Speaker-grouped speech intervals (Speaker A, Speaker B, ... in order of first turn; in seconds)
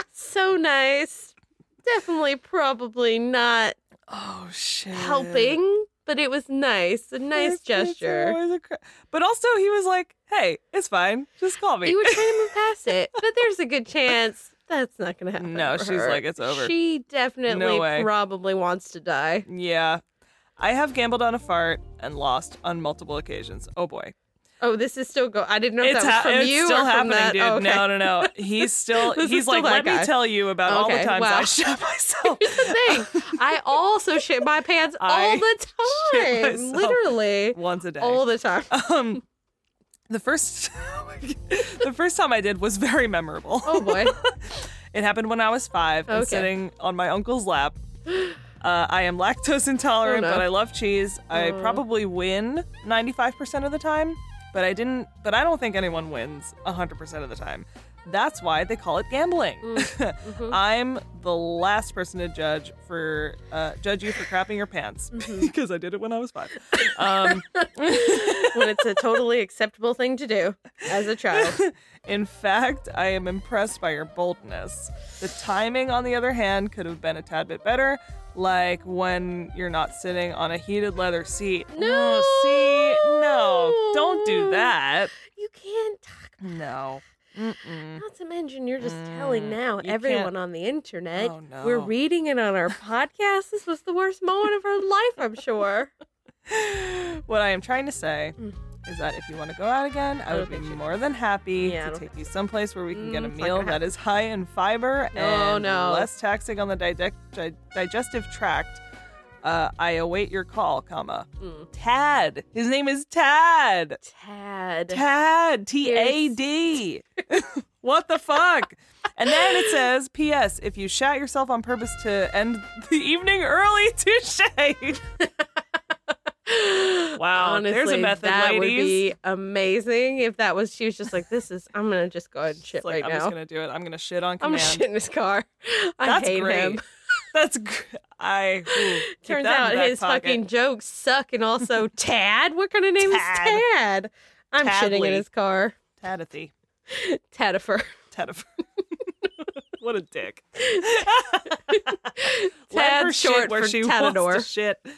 Speaker A: 0.1-1.3, 1.8-3.8, 4.9-8.4, 11.8-19.4, 24.6-28.4, 28.9-30.1, 30.6-31.5, 32.4-38.7, 43.6-44.2, 46.1-46.5, 50.0-50.4, 51.3-51.8, 59.6-60.5, 65.1-65.5, 66.8-71.6, 81.7-84.7, 85.3-86.4, 88.0-95.9, 100.3-100.8, 101.6-102.0, 102.9-103.8, 105.1-106.1, 111.4-111.7, 114.0-115.0, 115.8-116.4, 119.3-119.6, 126.5-133.3, 134.4-136.8, 138.7-145.8, 146.9-147.9, 150.7-154.5
Speaker B: 4.1-5.6, 7.3-12.5, 15.4-16.7, 17.5-18.1, 19.5-20.0, 20.6-24.1, 25.8-33.4, 35.0-39.2, 40.1-47.8, 48.6-69.0, 71.3-85.1, 86.4-88.0, 88.8-90.3, 91.2-91.9, 96.5-108.8, 109.4-114.0, 114.9-125.0, 127.2-129.1, 132.7-134.8, 136.0-136.8, 137.3-140.4, 143.0-143.6, 144.6-145.2, 146.0-146.5, 148.1-148.5, 149.6-152.1, 152.7-154.8